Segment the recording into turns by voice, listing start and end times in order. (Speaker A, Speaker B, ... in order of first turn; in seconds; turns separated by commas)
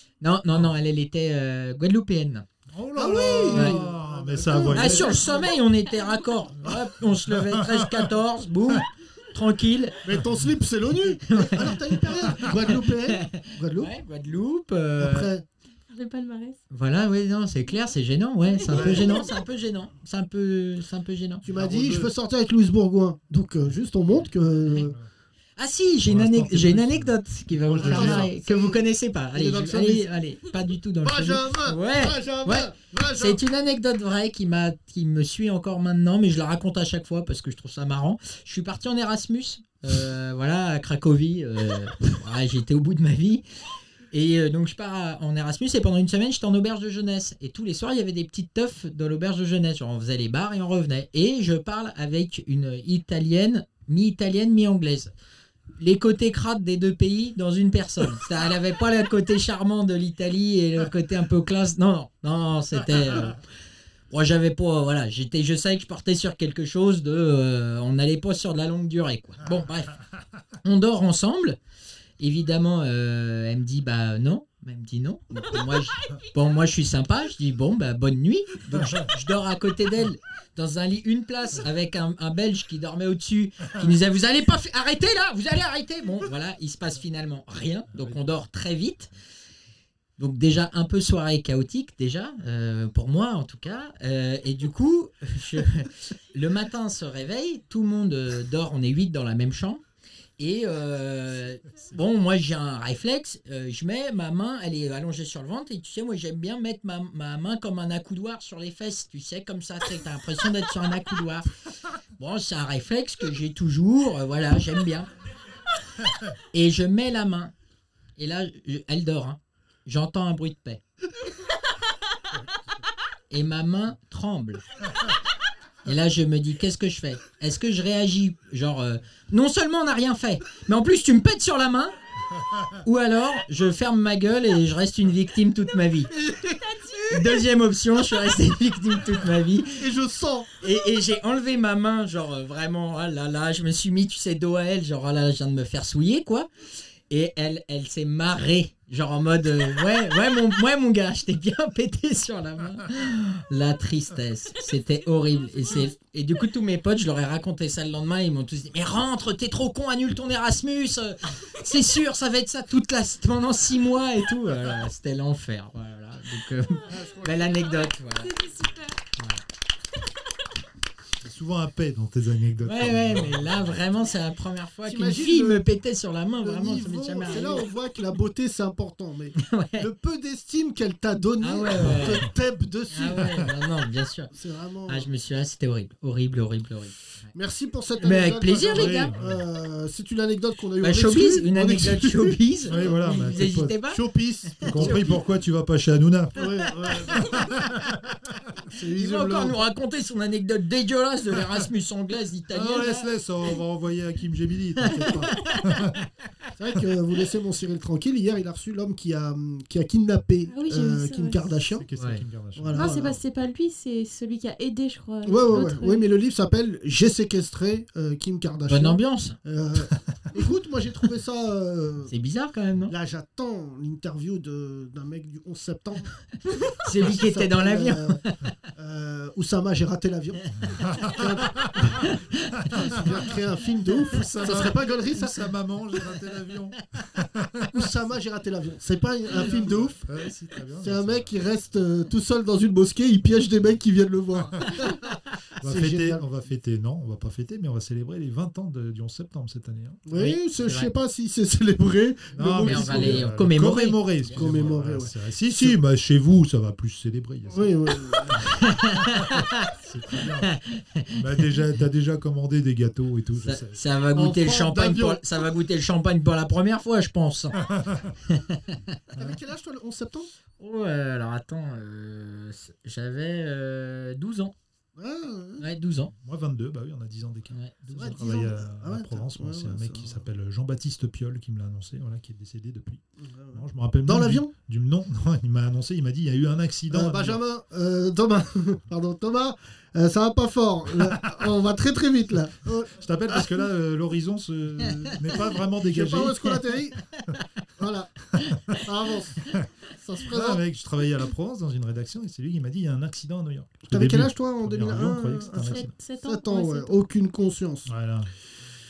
Speaker A: 0.2-2.4, Speaker B: 2.7-5.3, Speaker C: 2.9-5.5, Speaker A: 3.5-3.8, Speaker A: 4.7-10.0, Speaker B: 7.2-8.1, Speaker C: 10.0-13.9, Speaker B: 10.1-10.4, Speaker A: 11.3-15.3, Speaker C: 15.0-15.4, Speaker D: 15.9-16.6, Speaker A: 16.7-21.4, Speaker C: 18.7-19.2, Speaker B: 21.4-22.1, Speaker C: 21.4-24.9, Speaker B: 24.8-25.1, Speaker A: 25.6-43.4, Speaker B: 26.0-28.3, Speaker C: 27.8-30.1, Speaker C: 31.0-33.4, Speaker A: 44.1-55.1, Speaker A: 55.8-63.4, Speaker A: 64.1-70.0, Speaker A: 70.6-71.6, Speaker A: 72.2-89.1, Speaker A: 90.2-99.8, Speaker A: 100.4-111.5, Speaker A: 112.2-115.1, Speaker A: 116.5-117.5, Speaker A: 118.2-120.8, Speaker A: 123.3-124.6, Speaker A: 125.8-131.9, Speaker A: 132.8-136.1, Speaker C: 136.1-136.6, Speaker D: 136.6-136.9, Speaker A: 137.1-139.8, Speaker C: 139.8-140.5, Speaker A: 140.6-146.5, Speaker A: 147.1-168.3, Speaker C: 166.9-167.5, Speaker D: 168.2-168.9, Speaker A: 169.2-169.4, Speaker B: 171.2-173.8, Speaker A: 172.6-177.7, Speaker C: 174.8-175.6, Speaker C: 176.4-183.5, Speaker A: 179.3-179.9, Speaker A: 181.4-182.2, Speaker A: 182.9-184.3, Speaker C: 184.3-185.1, Speaker A: 184.9-187.0, Speaker C: 187.3-193.0, Speaker A: 188.0-189.1, Speaker B: 188.7-189.4, Speaker A: 190.8-194.0, Speaker B: 192.7-193.8, Speaker C: 193.8-195.2, Speaker A: 194.6-195.2, Speaker B: 194.7-197.9, Speaker C: 196.3-197.5, Speaker C: 198.6-199.6, Speaker A: 198.9-203.1, Speaker B: 202.5-205.9, Speaker A: 204.8-205.8, Speaker C: 204.9-205.2, Speaker C: 206.6-211.8, Speaker D: 210.5-211.4, Speaker B: 211.7-213.1, Speaker A: 211.9-212.2, Speaker C: 212.6-213.2, Speaker D: 212.7-216.1, Speaker C: 215.2-222.1, Speaker A: 218.7-219.4, Speaker A: 222.1-222.9, Speaker C: 222.9-226.1, Speaker A: 226.8-228.4, Speaker C: 226.9-228.2, Speaker C: 228.7-232.1, Speaker B: 230.8-231.9, Speaker A: 232.0-232.3, Speaker B: 232.6-233.2, Speaker C: 232.7-235.4, Speaker B: 234.0-237.9, Speaker C: 237.7-240.0, Speaker B: 239.3-241.3, Speaker C: 240.8-245.0, Speaker B: 245.6-250.0, Speaker C: 245.6-246.2, Speaker C: 250.1-253.3, Speaker A: 250.1-250.9, Speaker B: 252.3-257.7, Speaker A: 252.6-254.4, Speaker C: 254.3-255.8, Speaker C: 257.5-258.5, Speaker A: 258.6-259.7, Speaker B: 259.1-260.5, Speaker A: 260.4-261.2, Speaker B: 261.1-263.8, Speaker A: 263.4-267.6, Speaker C: 264.1-265.4, Speaker B: 267.6-268.1, Speaker A: 268.3-268.9, Speaker C: 269.1-270.3, Speaker A: 270.6-274.5, Speaker C: 274.9-275.6, Speaker A: 275.6-276.1, Speaker B: 276.2-283.0, Speaker C: 277.9-280.2, Speaker C: 283.2-284.5, Speaker B: 283.5-287.4, Speaker C: 286.9-293.5, Speaker B: 291.0-291.5, Speaker B: 292.9-296.5, Speaker C: 295.0-297.1, Speaker C: 297.8-300.6, Speaker B: 300.3-305.9, Speaker C: 303.9-307.9, Speaker D: 305.4-307.0, Speaker B: 307.9-308.3